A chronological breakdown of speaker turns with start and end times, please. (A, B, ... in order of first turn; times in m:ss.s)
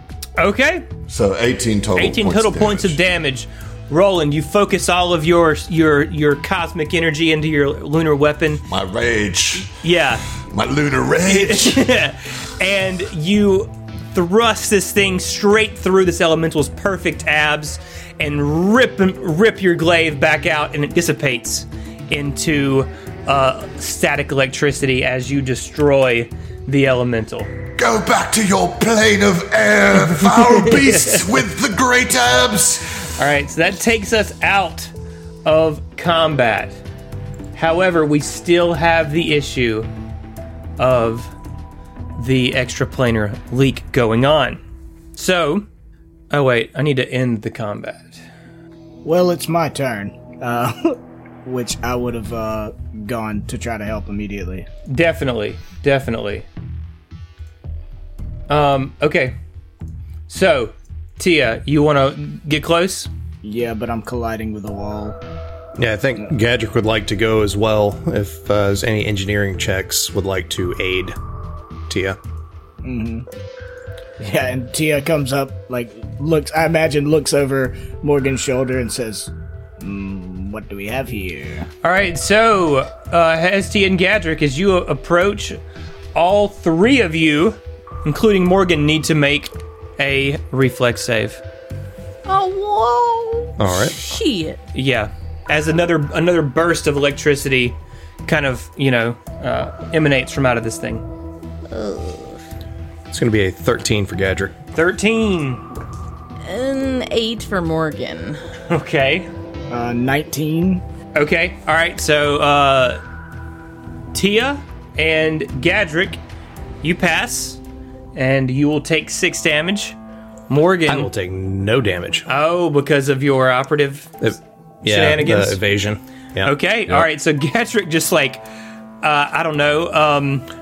0:00.4-0:00.9 A
0:01.1-0:03.0 B
0:02.0-0:08.7 A
0:08.7-0:09.8 B
0:09.7-0:10.3 A
0:10.4-0:11.9 B
0:11.2-0:27.6 A
0:27.8-0:33.1 B
0:30.2-0:31.2 A
0:33.0-0:34.9 A
0:35.4-0:36.8 A
0:37.6-0:39.9 A
0:40.8-0:41.3 A
0:42.2-0:44.6 A
0:45.1-0:45.7 A
0:46.3-0:48.2 A
0:49.0-0:54.7 C
0:54.9-0:56.4 A
0:58.5-0:59.4 A
1:00.3-1:03.1 A
1:03.4-1:05.2 C
1:05.8-1:11.2 D
1:11.9-1:12.2 D
1:12.8-1:13.3 C
1:14.2-1:21.7 C
1:21.8-1:25.6 A
1:26.1-1:31.4 A
1:32.3-1:34.6 E
1:33.6-1:34.0 D
1:34.7-1:41.0 A
1:41.7-1:42.4 E
1:43.1-1:44.6 D
1:44.8-1:45.6 A
1:46.4-1:48.4 E
1:48.7-1:49.3 A
1:49.7-1:50.8 C
1:51.1-1:53.0 A
1:54.1-1:56.2 A
1:56.8-1:57.6 A
1:58.1-2:00.0 A
2:00.5-2:01.1 A
2:00.9-2:02.3 D
2:02.3-2:04.2 A
2:04.2-2:06.6 D
2:04.8-2:05.6 A
2:06.4-2:08.4 A
2:09.0-2:10.5 A